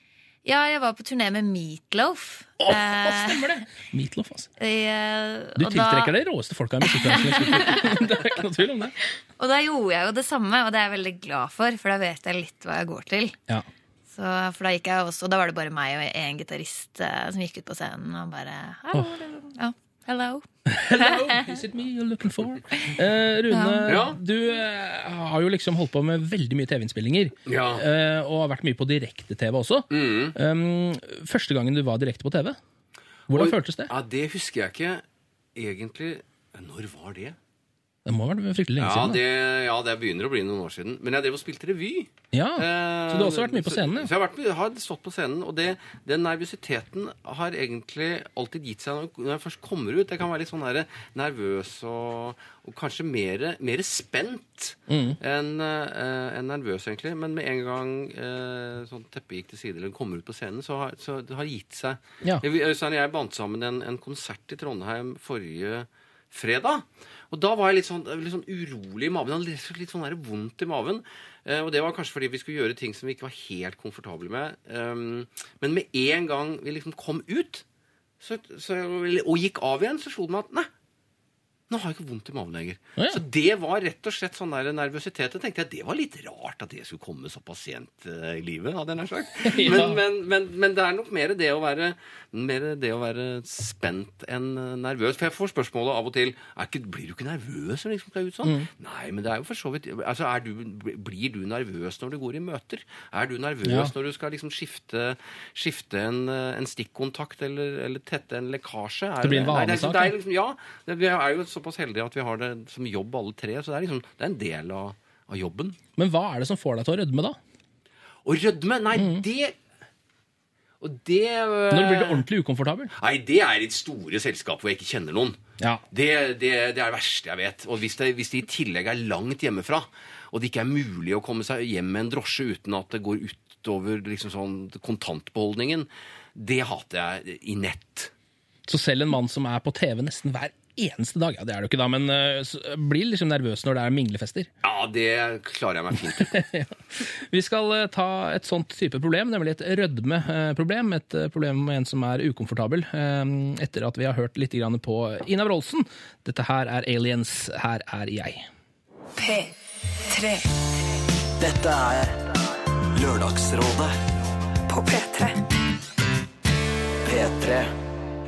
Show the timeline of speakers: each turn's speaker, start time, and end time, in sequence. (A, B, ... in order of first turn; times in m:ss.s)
0:00.4-0:03.5 A
0:02.6-0:04.5 B
0:04.6-0:06.1 A
0:05.6-0:08.9 B
0:06.8-0:08.0 A
0:09.4-0:13.4 A
0:14.1-0:21.5 A
0:18.9-0:19.2 B
0:20.7-0:32.6 B
0:23.5-0:24.0 A
0:23.9-0:24.2 C
0:27.5-0:27.8 C
0:29.9-0:30.4 C
0:33.3-0:33.9 B
0:33.3-0:35.0 C
0:35.6-0:37.4 C
0:38.1-0:39.2 B
0:38.8-1:17.6 C
0:42.3-0:44.1 B
0:54.9-0:55.2 B
1:18.2-1:20.7 C
1:21.7-1:55.8 C
1:29.4-1:30.0 B
1:43.6-1:43.9 B
1:49.2-1:50.1 B
1:56.0-1:57.4 B
1:58.2-1:59.6 C
1:59.0-1:59.2 B
2:00.8-2:02.2 C
2:01.7-2:02.9 B
2:03.0-2:05.4 C
2:05.9-2:18.1 C
2:18.7-2:24.5 B
2:24.6-2:26.4 C
2:26.2-2:38.5 B
2:41.4-2:43.9 D
2:47.0-2:47.7 D